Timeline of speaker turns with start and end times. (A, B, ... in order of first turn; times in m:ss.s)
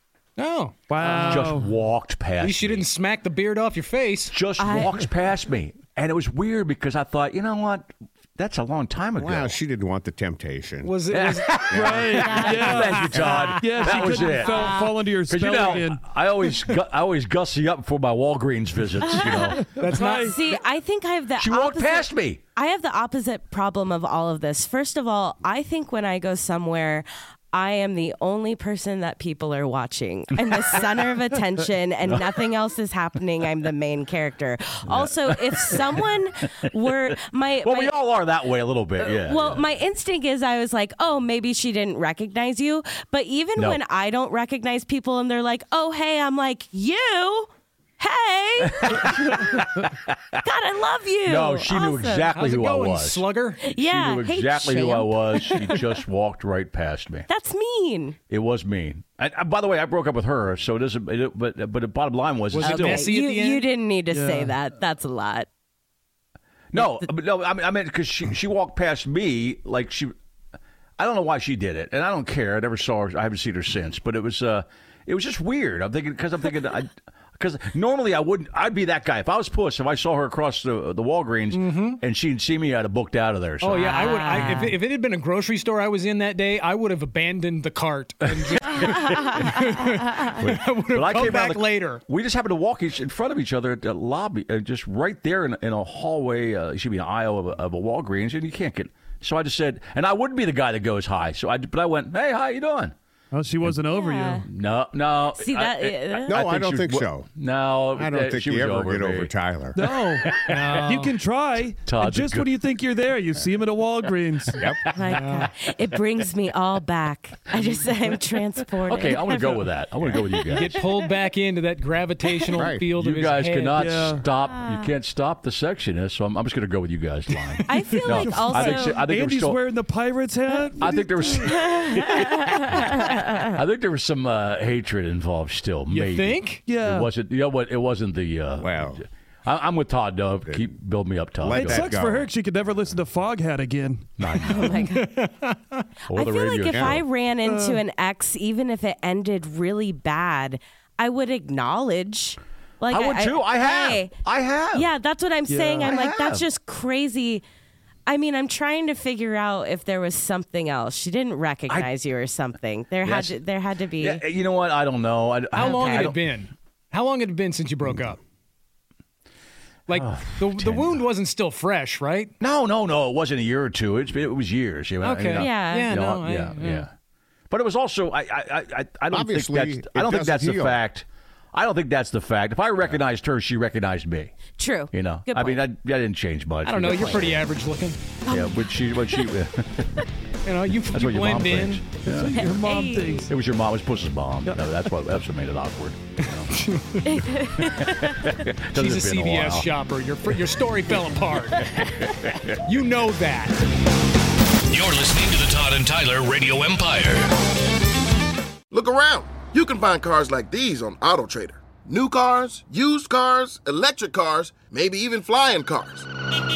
0:00.4-0:01.2 A
0:00.9-0:01.7 B
0:01.2-0:02.9 C
0:02.4-0:04.3 A
0:04.3-0:09.6 C
0:04.6-0:05.1 D
0:09.2-0:10.9 E
0:10.8-0:11.6 A
0:11.1-0:19.6 C
0:11.7-0:12.2 E
0:11.7-0:16.0 B
0:12.2-0:12.6 D
0:13.1-0:13.4 E
0:13.9-0:14.9 D
0:19.0-0:37.9 D
0:19.1-0:20.4 B
0:19.8-0:20.3 A
0:21.4-0:22.4 C
0:32.1-0:32.4 C
0:34.9-0:36.9 C
0:37.6-0:39.6 C
0:39.0-0:47.5 D
0:48.0-0:49.4 D
0:48.8-0:49.9 C
0:50.4-0:52.3 D
0:51.2-0:57.3 C
0:52.3-0:53.6 A
0:53.6-0:55.9 D
0:57.3-0:58.2 D
0:58.3-1:03.1 C
1:02.5-1:03.7 A
1:02.6-1:05.5 D
1:04.1-1:04.5 B
1:06.7-1:10.1 C
1:06.7-1:07.1 D
1:11.0-1:24.7 C
1:21.5-1:22.0 A
1:23.6-1:32.0 A
1:23.7-1:24.8 D
1:28.4-1:42.9 C
1:43.3-1:44.4 B
1:43.9-1:44.4 D
1:44.4-1:49.3 C
1:45.3-1:46.4 D
1:46.3-1:47.3 E
1:47.9-1:49.8 E
1:49.7-1:54.6 B
1:50.2-1:50.7 C
1:50.5-1:51.2 A
1:51.8-1:52.6 C
1:54.6-1:55.5 C
1:54.9-2:01.0 D
1:55.1-1:55.5 A
1:58.9-2:00.8 C
2:00.5-2:03.8 A
2:02.5-2:02.8 E
2:02.9-2:09.6 C
2:03.8-2:04.2 B
2:07.7-2:09.0 D
2:07.8-2:11.8 B
2:10.8-2:21.9 C
2:11.3-2:13.5 D
2:15.9-2:16.6 A
2:16.6-2:17.1 B
2:18.6-2:19.0 E
2:21.4-2:22.3 E
2:21.5-2:24.3 B
2:24.2-2:24.9 C
2:24.4-2:25.1 D
2:24.7-2:25.8 A
2:26.1-2:27.0 C
2:26.1-2:34.1 D
2:26.7-2:27.0 E
2:27.4-2:27.8 B
2:32.9-2:34.9 C
2:34.7-2:37.4 D
2:35.5-2:35.9 B
2:35.8-2:36.4 C
2:38.1-2:44.2 D
2:43.0-2:43.4 C
2:44.0-2:46.4 C
2:45.5-2:46.1 D
2:45.6-2:48.2 A
2:49.9-2:52.3 A
2:49.9-2:51.0 C
2:52.4-2:56.9 C
2:55.0-2:56.9 A
2:55.3-2:55.9 D
2:57.5-3:07.4 C
2:59.1-3:00.8 E
3:04.6-3:05.6 D
3:06.6-3:08.0 A
3:06.8-3:07.2 D
3:08.2-3:08.6 D
3:08.3-3:10.0 C
3:10.4-3:11.8 A
3:10.6-3:12.4 C
3:12.0-3:13.3 B
3:12.3-3:13.3 D
3:13.3-3:19.7 C
3:16.5-3:17.0 A
3:17.0-3:18.1 D
3:18.8-3:21.8 A
3:20.3-3:22.6 C
3:22.6-3:23.6 A
3:24.7-3:27.2 F
3:28.7-3:36.1 G